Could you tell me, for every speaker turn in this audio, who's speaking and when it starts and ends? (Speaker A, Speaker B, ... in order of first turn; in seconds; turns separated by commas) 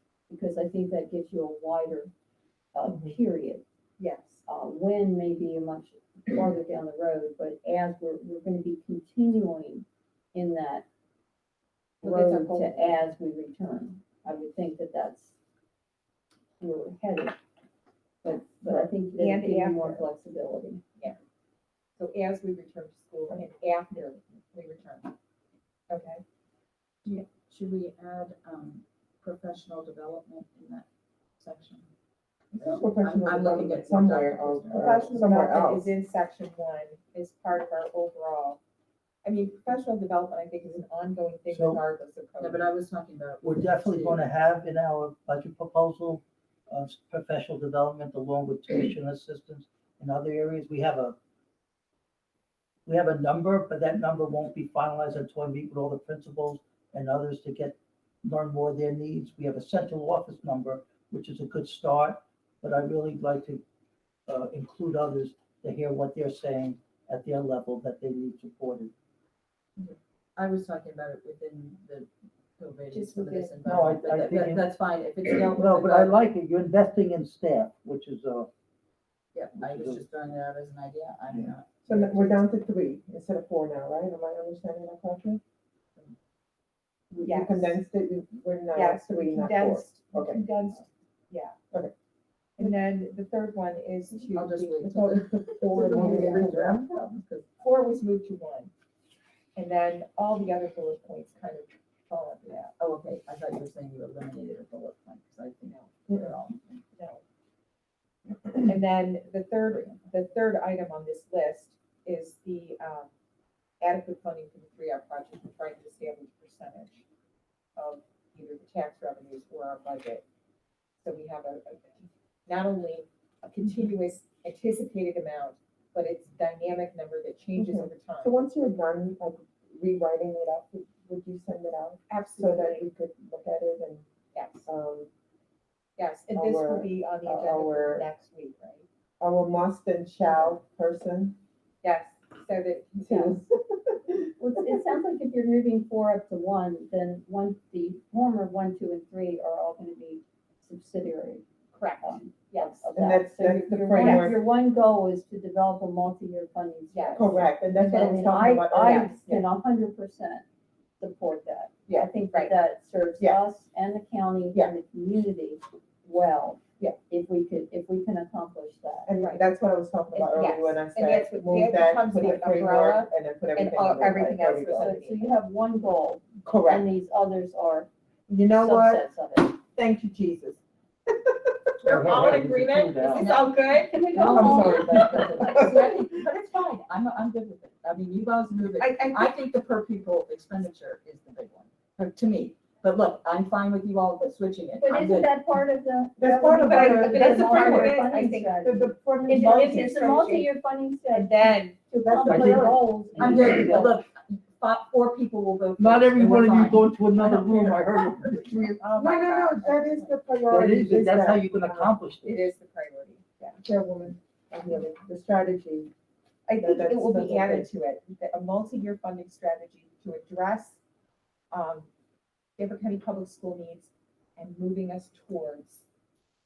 Speaker A: 0.3-2.1, Speaker A: 2.7-3.6, Speaker B: 2.9-3.1, Speaker C: 4.0-4.4, Speaker A: 4.5-10.8, Speaker C: 12.0-13.0, Speaker A: 12.0-15.3, Speaker A: 16.6-17.4, Speaker A: 18.2-20.8, Speaker B: 18.6-18.9, Speaker C: 19.2-20.0, Speaker C: 22.0-25.1, Speaker C: 25.9-26.2, Speaker D: 27.0-30.9, Speaker D: 31.4-31.9, Speaker D: 32.5-35.2, Speaker B: 32.5-35.9, Speaker C: 34.8-38.6, Speaker C: 39.2-42.7, Speaker E: 41.5-41.8, Speaker D: 42.4-44.3, Speaker E: 43.4-51.1, Speaker E: 52.9-63.6, Speaker E: 64.3-68.9, Speaker D: 69.8-76.1, Speaker C: 73.0-73.5, Speaker E: 73.6-74.6, Speaker E: 75.4-78.5, Speaker D: 79.3-82.2, Speaker E: 79.6-80.0, Speaker B: 81.8-85.4, Speaker B: 87.1-90.4, Speaker C: 87.2-87.8, Speaker C: 88.7-91.6, Speaker C: 92.6-95.1, Speaker D: 94.3-97.6, Speaker B: 94.8-96.6, Speaker E: 95.8-96.9, Speaker C: 97.6-98.7, Speaker C: 99.5-102.7, Speaker D: 102.8-106.8, Speaker C: 105.7-105.9, Speaker C: 107.0-107.2, Speaker C: 108.6-113.1, Speaker D: 109.7-110.0, Speaker C: 113.8-117.0, Speaker C: 117.8-120.2, Speaker C: 121.0-128.3, Speaker B: 127.5-134.1, Speaker C: 132.1-132.9, Speaker C: 134.3-134.7, Speaker B: 134.7-135.1, Speaker C: 136.0-138.8, Speaker B: 136.3-138.1, Speaker B: 139.2-141.4, Speaker C: 141.8-143.2, Speaker B: 143.0-144.8, Speaker A: 143.1-143.4, Speaker A: 144.4-151.4, Speaker C: 151.7-152.9, Speaker A: 152.0-160.4, Speaker B: 152.9-154.4, Speaker C: 154.0-154.3, Speaker C: 156.9-157.2, Speaker B: 157.1-159.4, Speaker A: 161.0-169.1, Speaker C: 161.9-162.6, Speaker B: 169.1-174.9, Speaker C: 169.2-169.4, Speaker C: 170.1-175.2, Speaker A: 174.7-177.9, Speaker B: 176.4-176.9, Speaker B: 178.3-179.0, Speaker A: 178.5-179.5, Speaker B: 179.7-181.5, Speaker C: 181.8-184.1, Speaker E: 181.8-183.3, Speaker D: 183.1-195.3, Speaker A: 183.9-185.9, Speaker B: 184.1-186.0, Speaker C: 188.8-189.3, Speaker A: 194.8-204.0, Speaker B: 196.2-198.1, Speaker C: 196.7-198.6, Speaker B: 198.6-200.5, Speaker C: 201.1-201.9, Speaker B: 202.0-202.7, Speaker E: 202.2-203.9, Speaker D: 203.2-208.3, Speaker E: 205.8-209.7, Speaker B: 208.9-211.5, Speaker E: 210.5-212.5, Speaker C: 212.1-213.6, Speaker B: 213.6-215.9, Speaker C: 216.5-220.8, Speaker B: 216.6-217.7, Speaker C: 221.5-221.9, Speaker C: 222.6-225.8